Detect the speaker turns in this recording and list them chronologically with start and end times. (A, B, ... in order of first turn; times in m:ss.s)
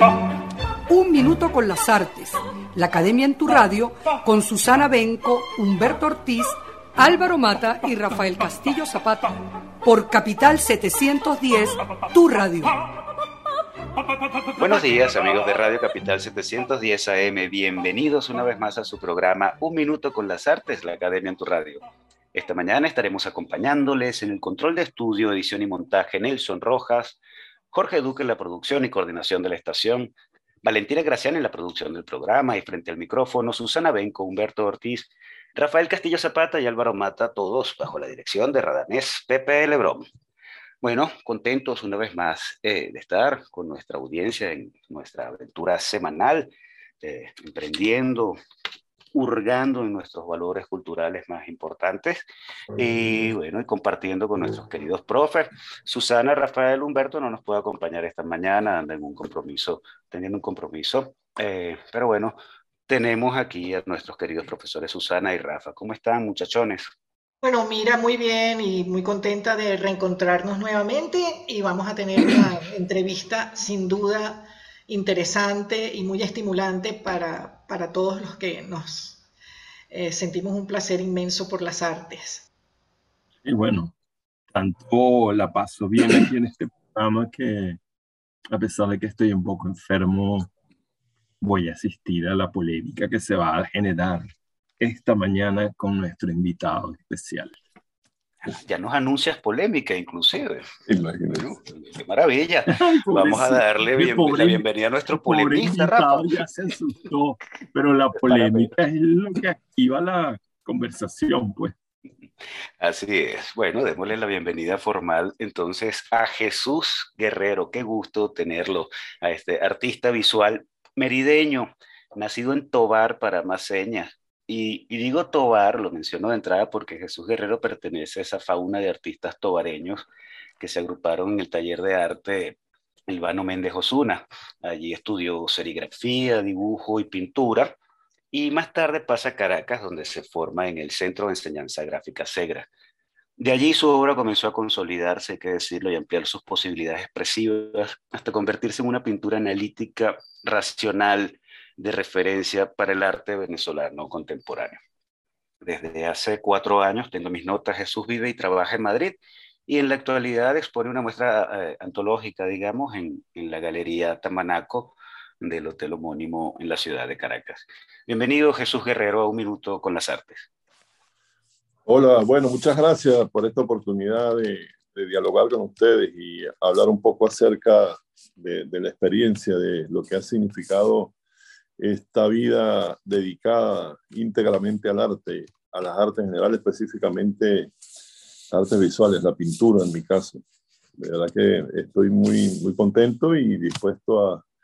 0:00.9-0:12.8 A
0:14.6-0:21.8 B
0:22.3-0:27.2 B
0:27.7-0:40.0 B
0:40.8-0:46.5 B
0:47.0-0:48.4 B
0:49.1-1:02.4 B
1:02.9-1:06.9 B
1:07.4-1:19.2 C
1:19.9-1:22.5 C
1:23.4-1:23.9 D
1:24.5-1:27.8 D
1:28.5-1:30.5 D
1:31.4-1:34.3 D
1:34.8-1:37.6 D
1:38.4-1:40.7 B
1:40.9-1:41.6 E
1:41.3-1:46.7 B
1:42.7-1:51.8 D
1:48.3-1:48.7 B
1:52.8-2:10.0 B
2:10.6-2:12.6 B
2:13.1-2:17.7 B
2:18.3-2:22.7 B
2:23.4-2:34.8 B
2:35.6-2:50.4 B
2:51.8-3:01.1 E
3:01.8-3:07.7 E
3:08.5-3:10.4 E
3:11.0-3:14.4 E